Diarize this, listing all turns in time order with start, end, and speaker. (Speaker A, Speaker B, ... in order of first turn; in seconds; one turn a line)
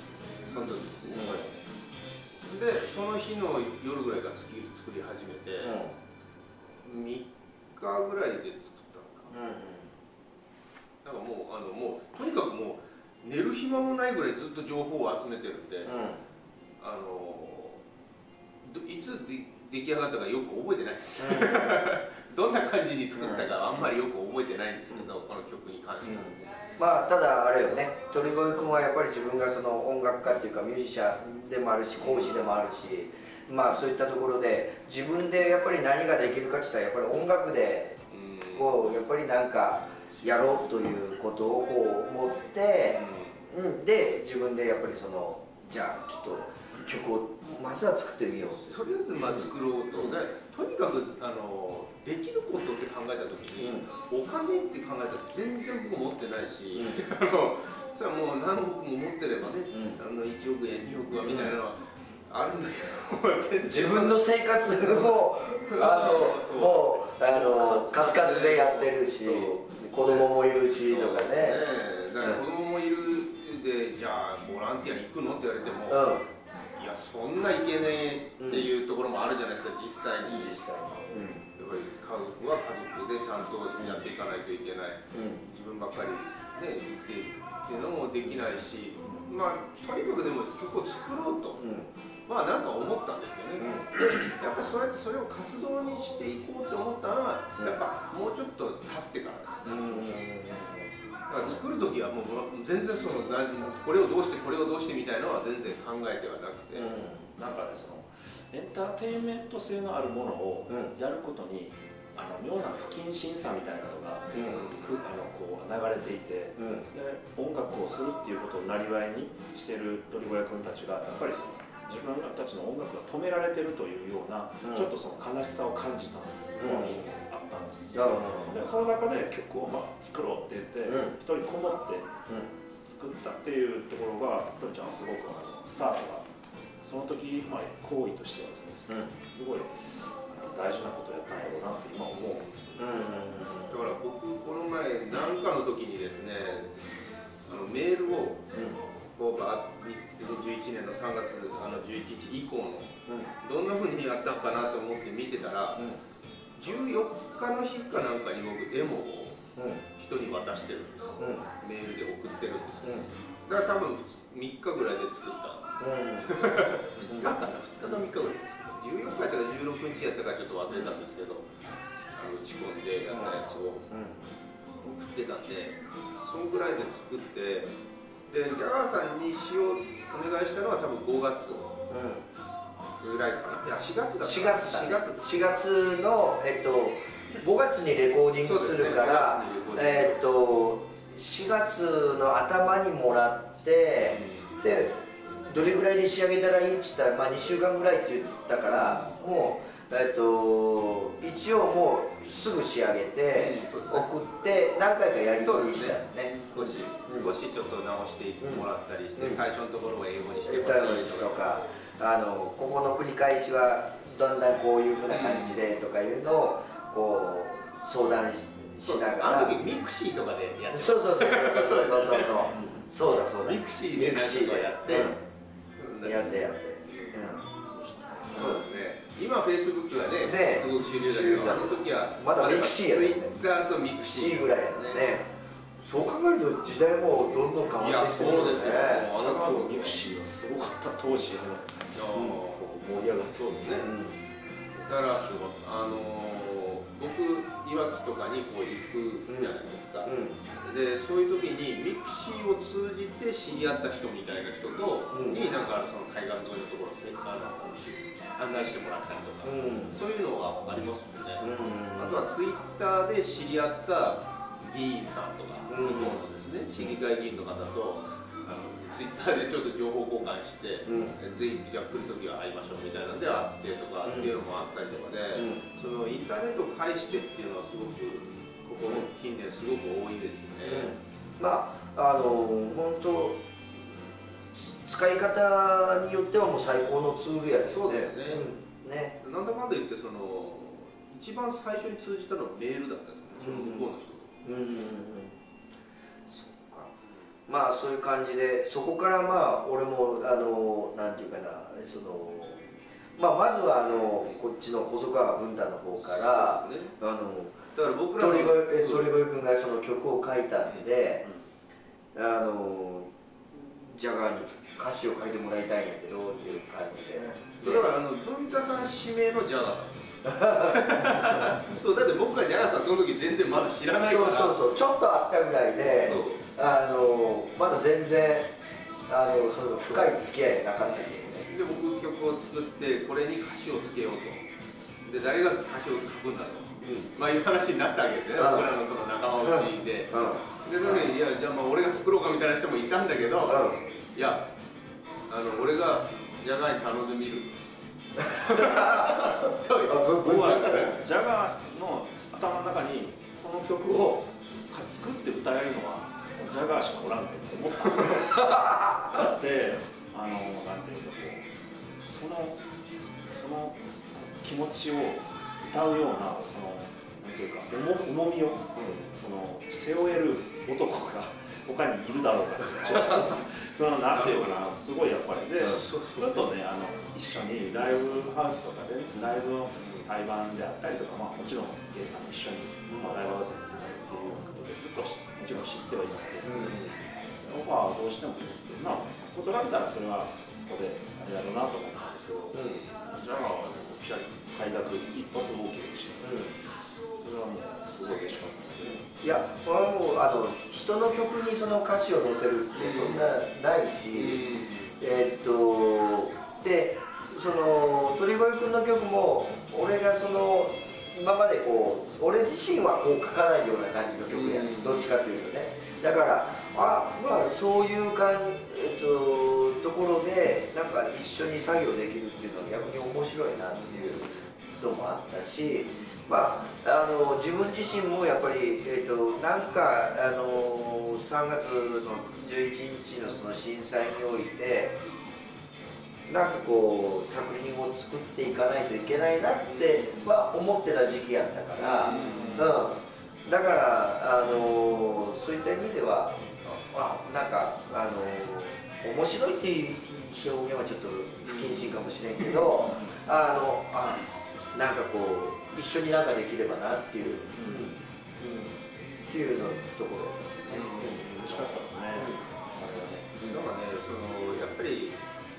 Speaker A: 0.5-1.6
Speaker B: 1.1-1.4
Speaker A: 2.4-5.8
Speaker B: 5.6-5.9
Speaker A: 6.8-9.3
Speaker B: 9.3-9.9
Speaker A: 11.0-15.9
Speaker B: 15.8-16.2
Speaker A: 16.8-17.8
Speaker A: 18.6-26.5
Speaker B: 21.2-21.8
Speaker B: 23.1-23.5
Speaker B: 26.8-38.0
Speaker A: 32.0-32.4
Speaker A: 38.1-38.7
Speaker B: 38.5-49.5
Speaker A: 42.9-43.5
Speaker A: 48.5-64.2
Speaker B: 53.6-53.9
Speaker B: 56.8-57.0
Speaker B: 59.7-60.0
Speaker B: 61.2-61.5
Speaker B: 63.7-71.6
Speaker A: 64.8-76.2
Speaker B: 75.9-76.2
Speaker A: 76.8-80.6
Speaker B: 78.4-78.7
Speaker B: 80.2-81.4
Speaker A: 81.1-91.6
Speaker B: 83.8-84.0
Speaker B: 85.1-85.4
Speaker B: 91.6-91.9
Speaker A: 92.3-100.1
Speaker B: 93.6-94.0
Speaker B: 99.7-100.9
Speaker A: 101.3-106.9
Speaker B: 106.7-107.3
Speaker C: 107.3-132.1
Speaker B: 114.3-114.6
Speaker A: 114.4-115.0
Speaker B: 116.6-116.8
Speaker B: 124.6-124.9
Speaker B: 126.6-127.0
Speaker B: 127.9-128.5
Speaker B: 130.8-131.1
Speaker C: 132.8-136.3
Speaker C: 136.8-143.0
Speaker B: 142.8-143.8
Speaker A: 143.7-146.8
Speaker A: 147.4-148.4
Speaker B: 148.5-148.8
Speaker A: 149.2-155.9
Speaker A: 156.6-159.4
Speaker B: 159.6-159.8
Speaker A: 160.0-171.5
Speaker B: 161.2-161.4
Speaker B: 162.8-163.1
Speaker B: 165.8-168.0
Speaker A: 172.1-173.9
Speaker B: 173.1-173.4
Speaker B: 173.9-174.2
Speaker A: 174.8-177.7
Speaker A: 178.3-181.8
Speaker B: 181.9-182.2
Speaker A: 183.0-185.2
Speaker B: 184.2-207.3
Speaker A: 188.4-190.2
Speaker A: 194.1-194.5
Speaker A: 198.7-199.1
Speaker A: 203.3-204.1
Speaker A: 205.4-211.4
Speaker B: 208.4-209.4
Speaker B: 210.4-219.6
Speaker A: 215.1-215.6
Speaker A: 218.8-222.5
Speaker B: 220.7-225.2
Speaker A: 223.4-225.2
Speaker A: 225.8-227.4
Speaker B: 226.0-227.4
Speaker C: 227.8-228.1
Speaker A: 228.3-235.1
Speaker B: 228.3-228.6
Speaker B: 230.2-233.4
Speaker B: 234.0-235.3
Speaker B: 235.8-239.1
Speaker A: 237.8-240.0
Speaker C: 238.8-243.8
Speaker A: 241.9-243.9
Speaker B: 243.8-244.2
Speaker A: 244.9-280.9
Speaker C: 245.2-245.5
Speaker B: 249.3-250.4
Speaker B: 255.1-255.4
Speaker B: 259.4-260.0
Speaker B: 261.4-262.2
Speaker B: 265.7-266.2
Speaker B: 270.9-271.1
Speaker B: 274.0-274.3
Speaker B: 275.3-275.6
Speaker B: 280.6-289.2
Speaker A: 287.7-288.5
Speaker A: 289.2-294.3
Speaker B: 293.4-293.9
Speaker B: 294.4-295.3
Speaker B: 296.3-296.9
Speaker B: 297.5-311.2
Speaker A: 306.0-306.9
Speaker A: 307.7-309.1
Speaker B: 312.1-317.9
Speaker A: 317.6-320.0
Speaker B: 320.2-321.6
Speaker A: 320.7-324.6
Speaker B: 324.0-328.5
Speaker A: 326.0-326.4
Speaker B: 329.1-331.5
Speaker A: 330.8-334.4
Speaker A: 335.0-344.5
Speaker B: 336.8-337.1
Speaker B: 338.4-338.7
Speaker B: 339.4-341.1
Speaker B: 343.4-343.8
Speaker A: 345.3-347.5
Speaker A: 348.3-350.9
Speaker B: 348.3-349.3
Speaker B: 349.9-350.9
Speaker C: 350.2-361.5
Speaker B: 358.4-359.2
Speaker C: 362.0-362.6
Speaker C: 363.3-396.6
Speaker A: 368.8-369.0
Speaker A: 372.9-373.4
Speaker A: 374.1-374.6
Speaker A: 375.6-376.4
Speaker B: 386.4-386.8
Speaker A: 386.5-387.1
Speaker B: 392.5-392.8
Speaker B: 396.2-396.5
Speaker C: 397.2-399.0
Speaker B: 399.2-404.4
Speaker A: 402.8-403.3
Speaker A: 404.1-405.0
Speaker B: 405.0-435.0
Speaker A: 414.3-415.1
Speaker A: 423.8-424.4
Speaker B: 436.3-454.2
Speaker A: 441.8-442.8
Speaker A: 451.4-451.9
Speaker B: 454.7-461.2
Speaker C: 457.5-457.9
Speaker A: 460.7-461.3
Speaker C: 461.0-463.3
Speaker B: 462.1-462.4
Speaker B: 463.4-463.6
Speaker A: 463.4-465.2